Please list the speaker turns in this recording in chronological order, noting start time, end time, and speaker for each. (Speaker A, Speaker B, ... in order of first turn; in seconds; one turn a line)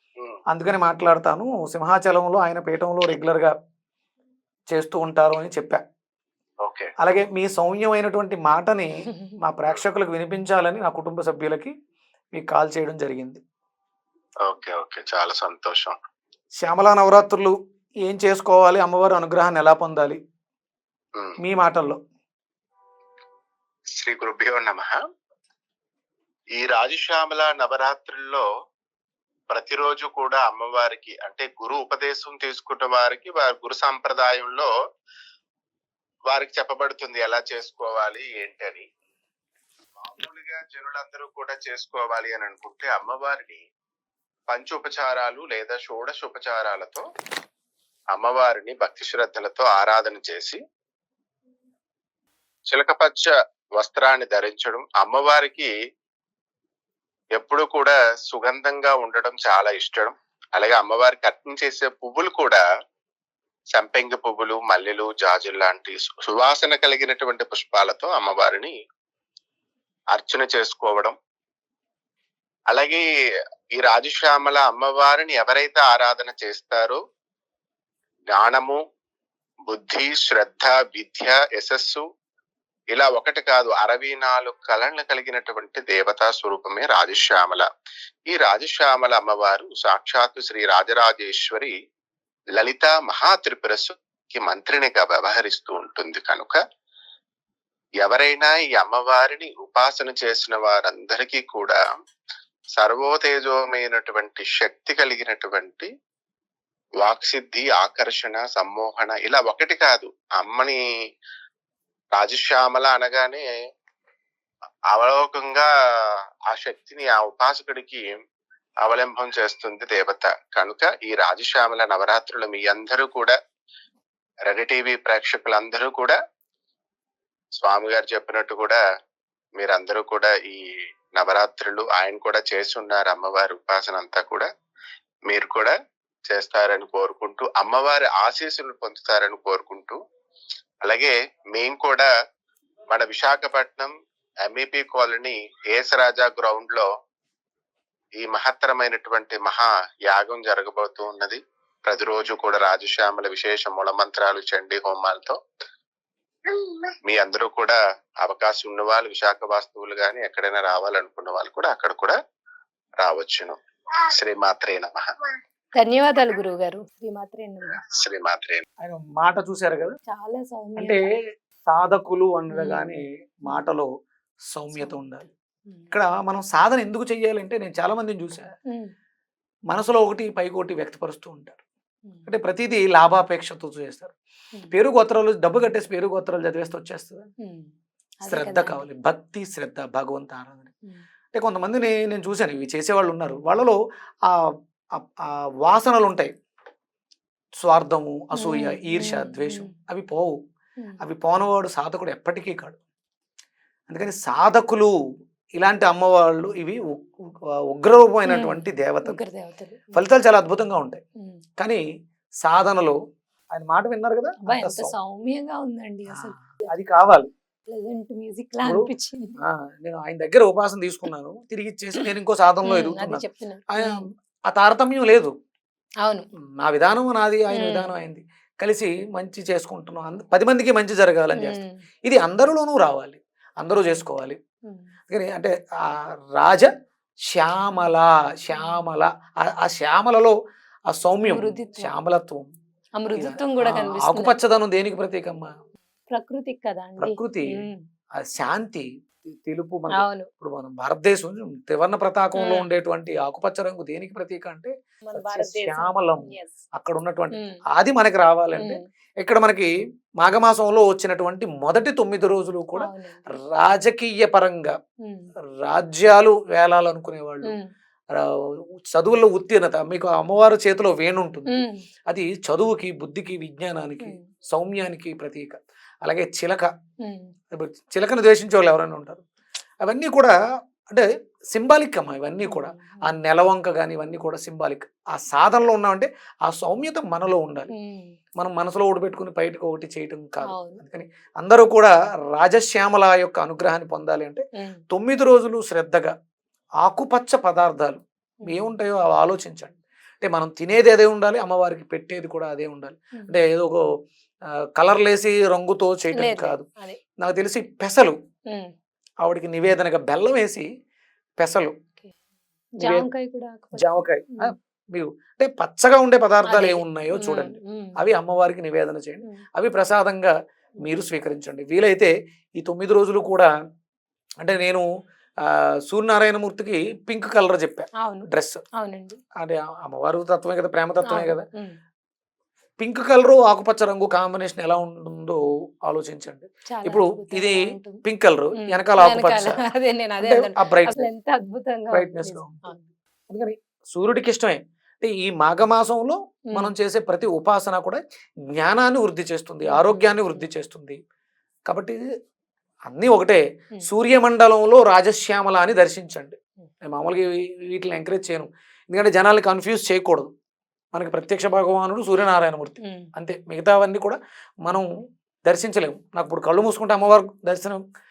Speaker A: 0.5-3.5
Speaker A: 4.7-5.8
Speaker B: 6.6-6.9
Speaker A: 7.0-11.7
Speaker A: 12.3-13.4
Speaker B: 14.5-15.9
Speaker A: 16.6-20.2
Speaker A: 21.4-22.0
Speaker B: 24.0-25.0
Speaker B: 26.6-28.4
Speaker B: 29.5-34.7
Speaker B: 36.3-38.9
Speaker B: 40.0-43.6
Speaker B: 44.5-47.0
Speaker B: 48.1-50.6
Speaker B: 52.7-55.7
Speaker B: 57.4-62.6
Speaker B: 63.7-68.7
Speaker B: 70.1-71.2
Speaker B: 72.7-73.0
Speaker B: 73.8-77.0
Speaker B: 78.3-78.8
Speaker B: 79.7-82.0
Speaker B: 82.9-87.7
Speaker B: 88.3-91.7
Speaker B: 92.6-96.6
Speaker B: 98.0-101.9
Speaker B: 102.8-105.9
Speaker B: 107.0-110.8
Speaker B: 112.2-113.5
Speaker B: 114.9-115.7
Speaker B: 116.5-118.2
Speaker B: 118.8-123.3
Speaker B: 124.5-126.2
Speaker B: 127.6-128.8
Speaker B: 129.6-130.6
Speaker B: 131.2-134.5
Speaker B: 135.3-135.7
Speaker B: 136.3-140.0
Speaker B: 140.8-142.1
Speaker B: 142.9-143.9
Speaker B: 144.5-146.9
Speaker B: 148.2-155.4
Speaker B: 156.5-162.2
Speaker B: 163.0-163.6
Speaker B: 164.1-165.1
Speaker C: 165.8-167.8
Speaker B: 167.9-168.6
Speaker A: 168.8-170.0
Speaker C: 170.1-171.1
Speaker A: 170.8-171.1
Speaker A: 171.7-173.9
Speaker C: 172.5-173.7
Speaker A: 174.5-175.3
Speaker A: 175.9-178.5
Speaker A: 179.7-181.6
Speaker A: 182.3-184.1
Speaker A: 184.7-187.3
Speaker C: 187.4-187.7
Speaker C: 188.2-188.8
Speaker A: 188.3-190.7
Speaker A: 191.3-194.4
Speaker A: 194.9-196.3
Speaker A: 197.6-200.4
Speaker C: 198.4-199.7
Speaker A: 201.0-202.8
Speaker A: 203.9-204.9
Speaker A: 205.6-207.1
Speaker A: 207.7-209.2
Speaker C: 208.3-210.0
Speaker A: 209.9-211.0
Speaker A: 212.4-213.0
Speaker A: 213.5-214.9
Speaker C: 214.4-216.7
Speaker A: 216.1-217.3
Speaker C: 217.7-219.4
Speaker A: 219.4-225.3
Speaker C: 222.7-224.1
Speaker A: 226.6-234.4
Speaker C: 227.5-227.9
Speaker C: 231.4-231.8
Speaker A: 235.1-236.7
Speaker A: 237.3-240.3
Speaker C: 238.6-238.9
Speaker A: 240.9-242.5
Speaker C: 241.2-241.9
Speaker C: 243.0-244.4
Speaker A: 243.2-245.5
Speaker C: 246.1-247.8
Speaker A: 247.0-247.6
Speaker A: 248.2-262.9
Speaker C: 250.0-250.3
Speaker C: 252.4-252.7
Speaker C: 255.1-256.6
Speaker C: 257.3-257.6
Speaker C: 258.6-258.8
Speaker C: 262.8-263.2
Speaker A: 263.6-264.7
Speaker C: 265.0-265.3
Speaker A: 265.6-267.6
Speaker A: 268.1-271.5
Speaker C: 271.5-271.9
Speaker A: 272.1-276.7
Speaker C: 274.0-274.3
Speaker C: 277.0-277.3
Speaker A: 277.5-279.2
Speaker A: 279.8-280.3
Speaker A: 280.9-287.7
Speaker C: 282.4-283.1
Speaker C: 287.7-288.2
Speaker A: 288.4-296.1
Speaker C: 290.5-290.8
Speaker A: 296.8-303.8
Speaker C: 298.4-298.7
Speaker C: 303.1-303.4
Speaker A: 304.8-306.7
Speaker C: 306.1-307.0
Speaker A: 307.2-308.2
Speaker A: 309.2-310.7
Speaker A: 311.4-311.8
Speaker C: 312.8-314.5
Speaker A: 312.8-313.1
Speaker A: 313.8-323.5
Speaker C: 316.4-318.0
Speaker A: 324.4-324.9
Speaker A: 325.4-328.6
Speaker C: 328.0-329.2
Speaker A: 329.4-331.4
Speaker C: 331.1-331.8
Speaker A: 332.8-339.6
Speaker C: 336.7-338.0
Speaker C: 338.6-342.9
Speaker A: 340.2-341.1
Speaker A: 341.9-348.0
Speaker A: 348.5-351.0
Speaker C: 349.7-350.5
Speaker A: 351.7-352.0
Speaker A: 352.9-360.3
Speaker A: 360.9-364.9
Speaker C: 362.8-363.1
Speaker A: 365.5-367.8